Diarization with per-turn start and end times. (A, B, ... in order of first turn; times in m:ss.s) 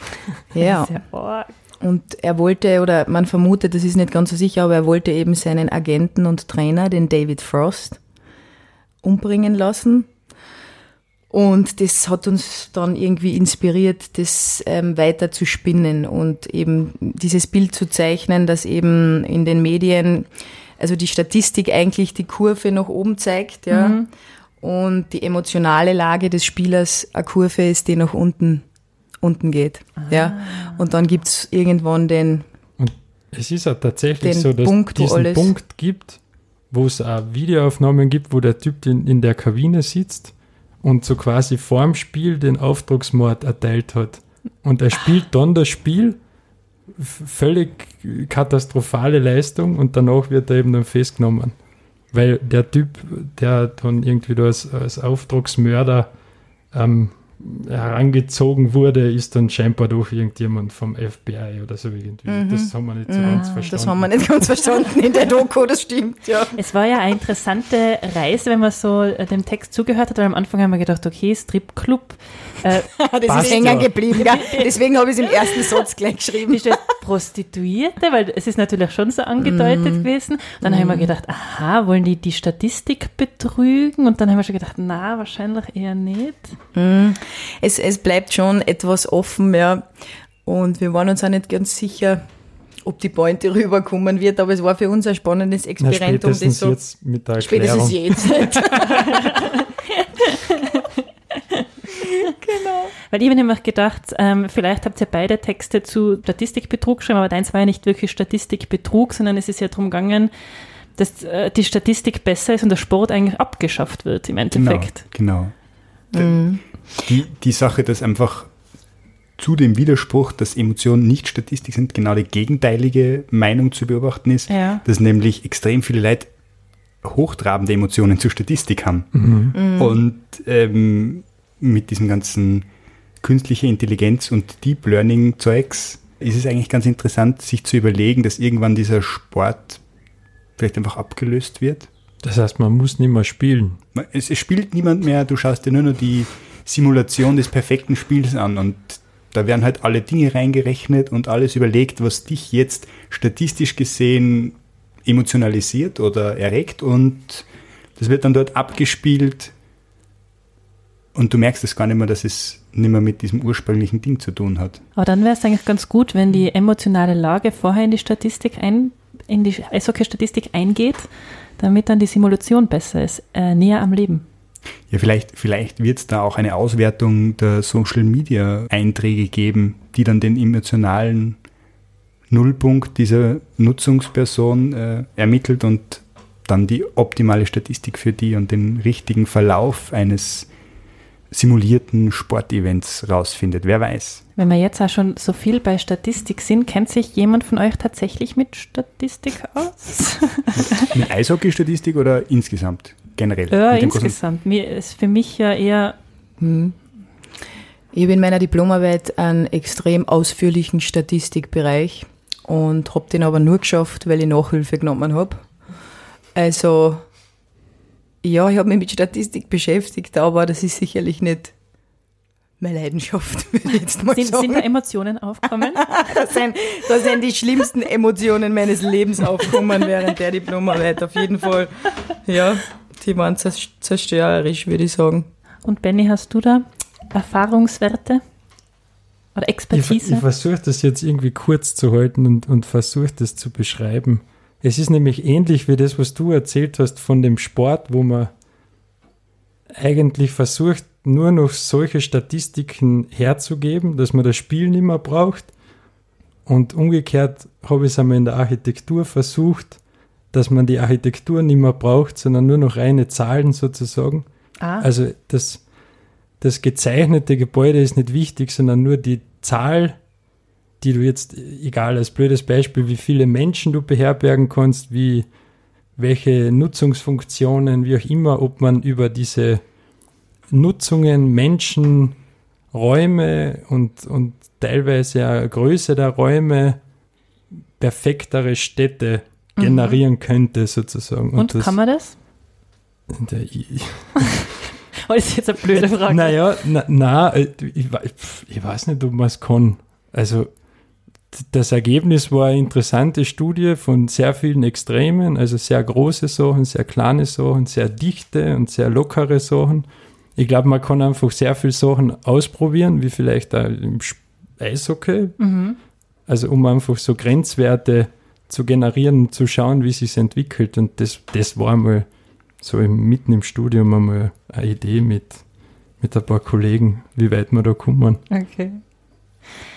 0:00.5-0:00.9 A
0:00.6-0:01.5 B
0:01.8-0:08.0 A
0:09.0-0:10.1 A
0:11.3-0:24.0 A
0:23.7-0:24.1 B
0:24.6-0:28.6 A
0:29.2-0:32.5 A
0:30.0-0:30.8 B
0:32.8-0:36.2 C
0:34.2-0:35.5 A
0:36.7-0:46.2 C
0:47.0-0:51.6 C
0:52.1-0:56.1 C
0:56.7-1:04.3 C
1:02.3-1:06.6 A
1:03.3-1:03.8 B
1:06.6-1:14.7 B
1:13.0-1:16.8 A
1:13.3-1:13.9 C
1:16.5-1:26.6 B
1:19.4-1:20.1 A
1:20.6-1:21.1 A
1:26.7-1:29.9 A
1:30.4-1:32.2 A
1:32.8-1:36.8 A
1:35.8-1:38.9 C
1:37.4-1:39.1 A
1:38.9-1:42.2 B
1:42.0-1:42.9 A
1:43.1-1:50.3 B
1:51.0-1:55.0 B
1:54.5-1:55.6 D
1:56.1-1:57.0 A
1:56.2-1:58.5 D
1:59.4-2:06.3 D
2:04.5-2:04.8 B
2:07.0-2:12.7 D
2:09.2-2:09.5 C
2:09.5-2:10.0 A
2:13.2-2:19.8 D
2:20.6-2:21.9 D
2:22.2-2:23.8 C
2:23.9-2:39.5 D
2:41.1-2:44.8 D
2:45.0-2:54.2 B
2:54.9-3:01.4 D
3:02.3-3:10.5 D
3:11.3-3:14.2 D
3:14.4-3:20.9 B
3:20.7-3:24.2 D
3:23.5-3:26.0 B
3:26.4-3:26.8 A
3:27.9-3:35.4 A
3:36.4-3:37.0 A
3:38.2-3:41.5 A
3:42.6-3:44.7 A
3:44.2-3:46.2 B
3:45.8-3:55.3 A
3:55.6-3:58.2 B
3:59.4-4:00.2 B
3:59.7-4:08.3 C
4:09.8-4:15.5 C
4:16.5-4:19.8 C
4:20.3-4:24.3 C
4:24.6-4:24.9 B
4:24.8-4:25.6 C
4:26.4-4:30.0 C
4:30.8-4:35.3 C
4:36.0-4:39.6 C
4:40.5-4:42.2 C
4:42.7-4:46.8 C
4:47.8-4:51.8 C
4:49.6-4:50.0 B
4:51.4-4:52.2 B
4:53.1-4:54.3 C
4:55.0-4:56.4 B
4:56.1-5:00.5 C
5:01.3-5:15.5 C
5:15.4-5:15.8 B
5:16.3-5:22.1 C
5:22.6-5:25.4 C
5:26.0-5:28.2 C
5:28.3-5:28.8 B